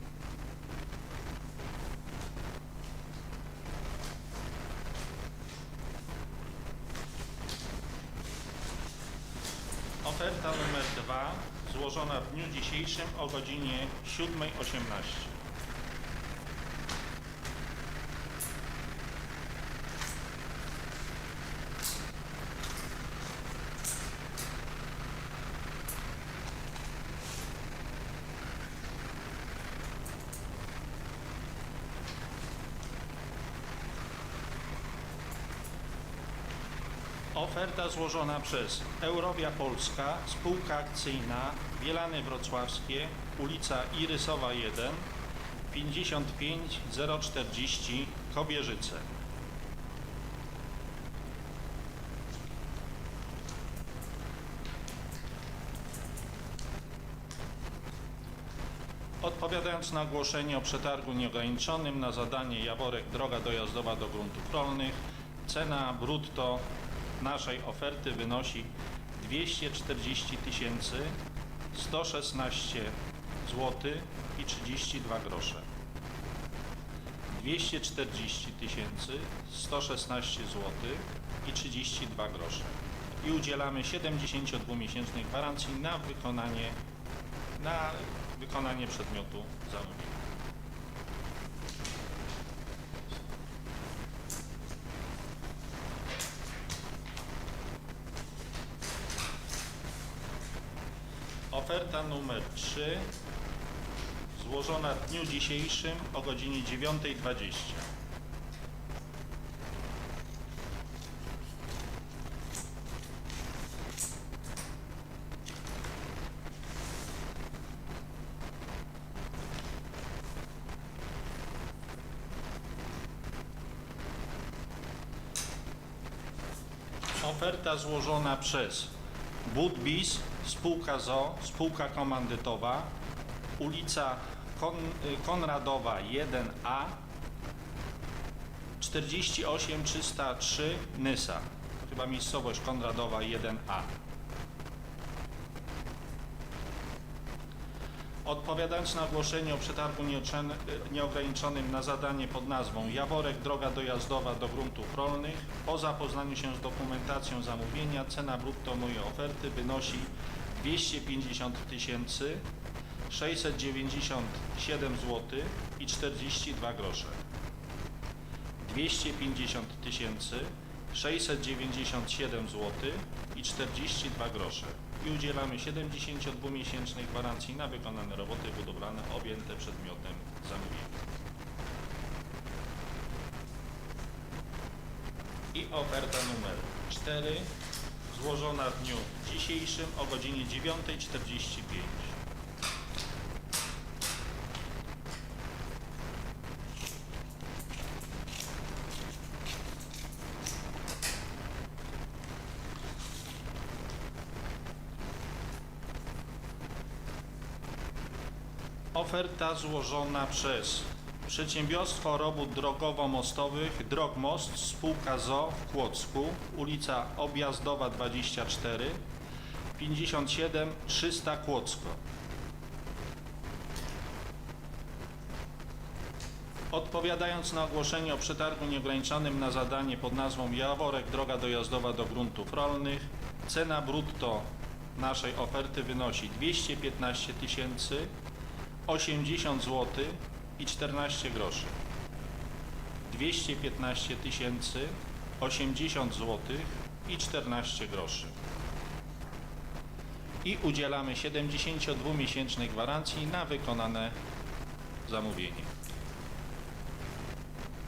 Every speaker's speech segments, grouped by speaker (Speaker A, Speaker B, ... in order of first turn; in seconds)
Speaker A: 10.0-15.3, 37.3-45.0, 45.7-49.1, 59.2-66.7, 67.2-71.2, 71.7-75.6, 77.3-86.8, 87.6-90.2, 101.5-103.1, 104.3-107.9, 127.2-128.9, 129.4-132.9, 133.6-137.0, 138.8-143.9, 148.2-162.4, 163.1-167.2, 168.6-181.0, 185.5-187.5, 188.1-192.2, 208.9-219.0, 219.8-222.0, 226.7-238.1, 238.8-241.8, 243.0-248.3, 250.4-254.2, 255.0-255.7